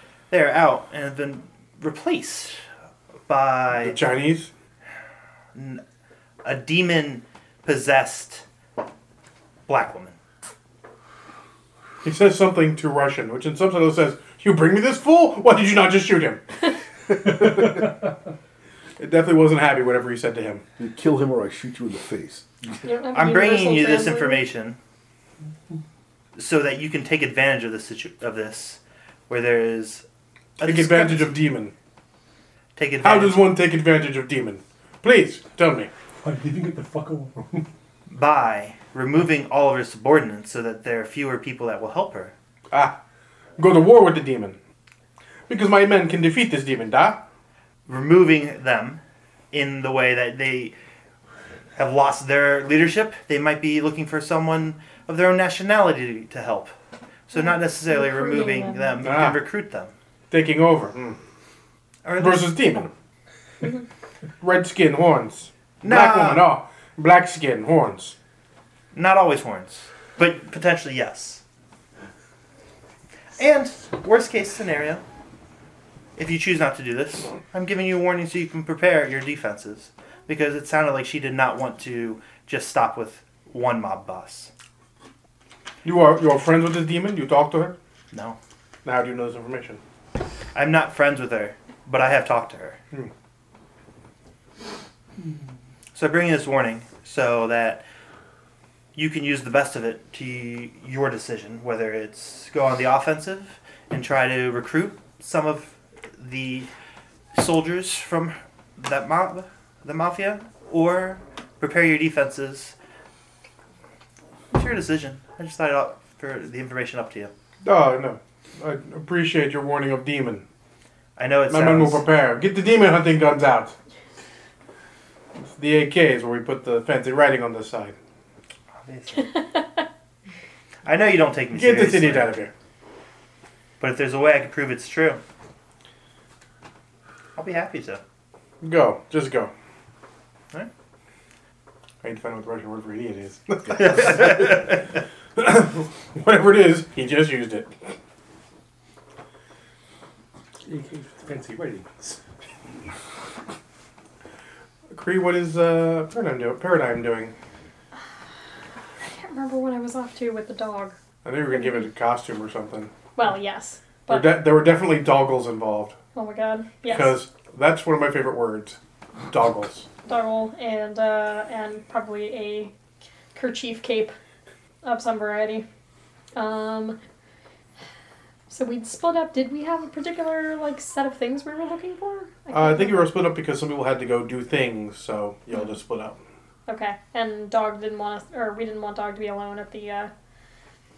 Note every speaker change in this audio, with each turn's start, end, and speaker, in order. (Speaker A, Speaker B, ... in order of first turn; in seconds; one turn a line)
Speaker A: 0.3-2.6
Speaker A: 3.3-4.0
Speaker B: 3.8-4.5
Speaker A: 5.5-5.8
Speaker A: 6.4-8.4
Speaker A: 9.7-10.2
Speaker B: 12.0-16.4
Speaker B: 19.0-20.6
Speaker C: 20.8-22.8
Speaker D: 22.8-24.5
Speaker A: 23.1-24.8
Speaker A: 26.4-30.1
Speaker A: 30.6-31.4
Speaker B: 30.6-31.7
Speaker A: 32.8-33.5
Speaker B: 33.0-35.9
Speaker E: 36.2-37.7
Speaker A: 38.1-42.3
Speaker B: 42.7-43.0
Speaker B: 43.6-44.6
Speaker B: 45.5-47.3
Speaker A: 47.9-49.0
Speaker A: 49.5-50.8
Speaker A: 51.8-56.7
Speaker A: 57.3-59.9
Speaker D: 57.4-58.9
Speaker B: 59.0-59.4
Speaker B: 60.3-61.2
Speaker A: 62.0-62.7
Speaker B: 62.2-62.9
Speaker B: 64.4-68.2
Speaker A: 65.8-66.5
Speaker A: 68.9-71.4
Speaker A: 73.4-75.0
Speaker A: 76.2-84.5
Speaker B: 85.8-87.8
Speaker A: 88.1-88.4
Speaker B: 88.8-89.8
Speaker A: 90.5-92.8
Speaker A: 95.9-97.8
Speaker A: 99.0-106.7
Speaker A: 107.3-112.8
Speaker A: 114.5-117.3
Speaker B: 117.6-120.5
Speaker A: 121.2-122.0
Speaker B: 121.5-123.8
Speaker B: 125.4-128.0
Speaker A: 128.8-129.4
Speaker A: 130.8-132.4
Speaker B: 131.5-132.5
Speaker A: 133.8-135.2
Speaker A: 137.4-138.0
Speaker B: 138.6-139.5
Speaker B: 142.0-144.6
Speaker A: 143.7-144.8
Speaker B: 145.4-147.7
Speaker E: 150.7-152.2
Speaker B: 154.9-157.3
Speaker D: 159.0-161.0
Speaker B: 161.2-162.9
Speaker D: 161.5-161.9
Speaker D: 163.2-164.4
Speaker B: 164.1-166.0
Speaker D: 166.1-167.2
Speaker B: 166.8-168.8
Speaker B: 169.3-169.9
Speaker D: 170.1-172.7
Speaker D: 173.3-174.1
Speaker D: 174.8-175.7
Speaker D: 176.3-177.0
Speaker D: 178.5-183.1
Speaker B: 182.5-186.2
Speaker D: 186.7-190.1